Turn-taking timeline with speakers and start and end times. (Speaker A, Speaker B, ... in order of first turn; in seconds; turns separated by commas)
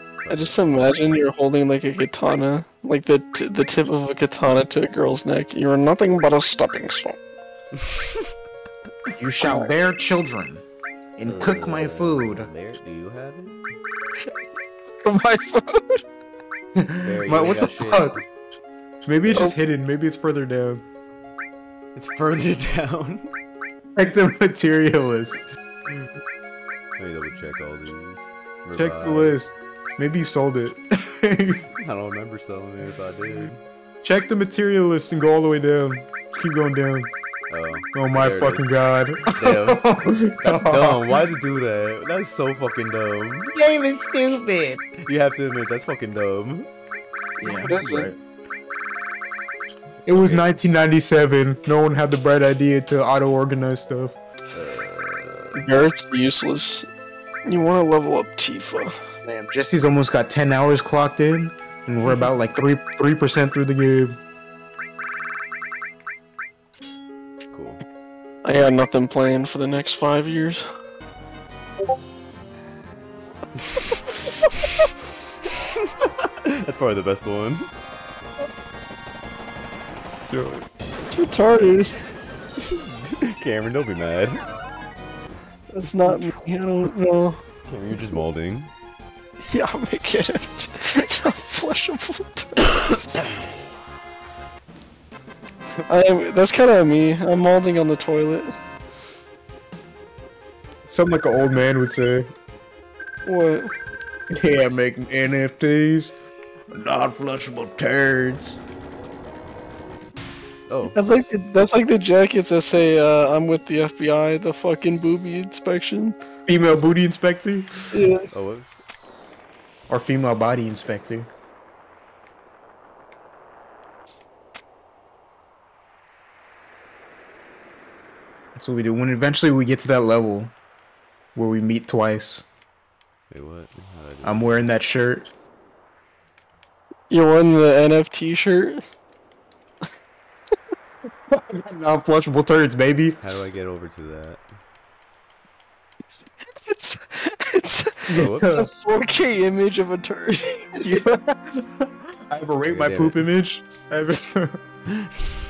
Speaker A: 0.2-0.6, Speaker B: 0.3-7.2, Speaker A: 7.8-8.2, Speaker C: 9.2-10.6, Speaker B: 9.4-9.7, Speaker C: 11.2-12.5, Speaker A: 11.2-13.6, Speaker B: 15.0-16.0, Speaker C: 16.8-18.2, Speaker A: 17.0-18.2, Speaker C: 19.1-20.8, Speaker A: 21.9-23.3, Speaker C: 23.9-25.4, Speaker A: 27.0-29.4, Speaker C: 28.7-31.6, Speaker A: 31.8-33.6, Speaker C: 34.0-37.1, Speaker A: 37.5-38.7, Speaker C: 37.9-41.1, Speaker A: 39.3-43.5, Speaker C: 43.5-44.8, Speaker A: 45.0-46.7, Speaker C: 47.4-48.1, Speaker B: 47.4-48.1, Speaker C: 50.0-54.1, Speaker A: 50.1-50.5, Speaker A: 54.5-55.6, Speaker B: 55.5-56.9, Speaker B: 57.5-58.9, Speaker C: 59.2-64.2, Speaker A: 67.5-67.8, Speaker B: 68.4-70.6, Speaker A: 73.6-74.8, Speaker A: 75.5-77.7, Speaker C: 80.3-80.6, Speaker B: 81.0-82.2, Speaker A: 82.6-84.4, Speaker B: 85.7-87.4, Speaker A: 87.7-88.7, Speaker B: 89.5-93.0, Speaker B: 95.8-98.5, Speaker C: 100.9-102.3, Speaker B: 103.2-103.7, Speaker C: 104.3-106.1, Speaker C: 106.7-108.6, Speaker A: 110.7-111.0, Speaker B: 110.9-116.1, Speaker C: 116.5-117.9, Speaker B: 117.9-118.3, Speaker A: 118.3-118.7, Speaker C: 119.9-121.3, Speaker C: 128.6-130.5, Speaker C: 131.3-132.4, Speaker A: 133.3-134.6, Speaker C: 134.2-135.3, Speaker B: 137.1-138.8, Speaker C: 141.3-143.2, Speaker A: 143.2-144.4, Speaker B: 146.6-151.1, Speaker C: 148.1-148.7, Speaker A: 148.2-148.5, Speaker C: 150.8-154.6, Speaker A: 152.7-153.2, Speaker A: 155.0-155.3